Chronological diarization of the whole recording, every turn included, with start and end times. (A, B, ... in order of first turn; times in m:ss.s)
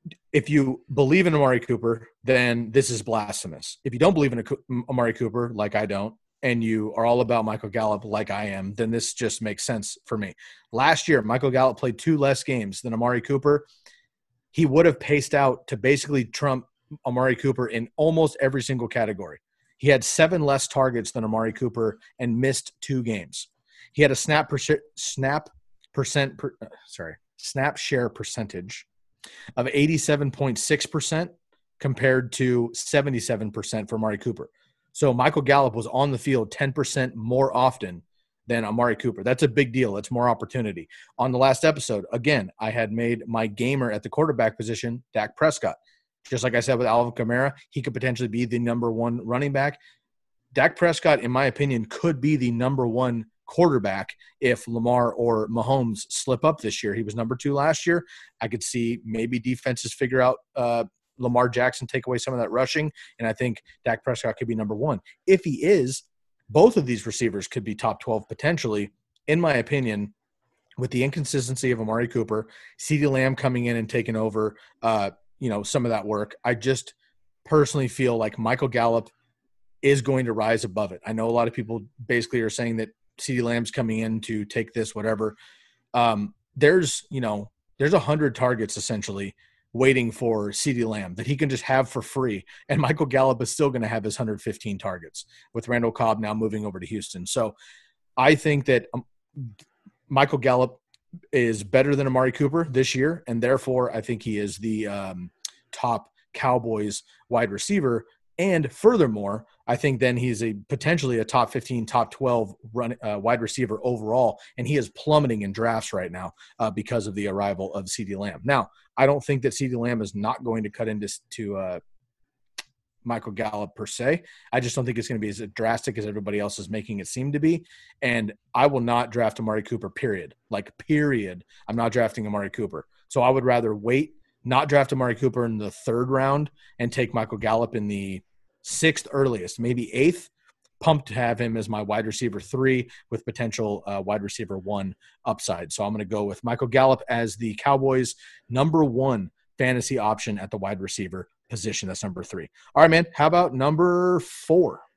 0:00.3-0:13.7 A
0:14.5-0:28.9 A
0:29.6-0:49.8 A
0:50.5-1:10.1 A
1:10.8-1:19.1 A
1:19.8-1:25.4 A
1:25.9-1:37.6 A
1:38.2-1:39.5 A
1:40.1-1:40.8 A
1:41.3-2:01.8 A
2:03.0-2:34.8 A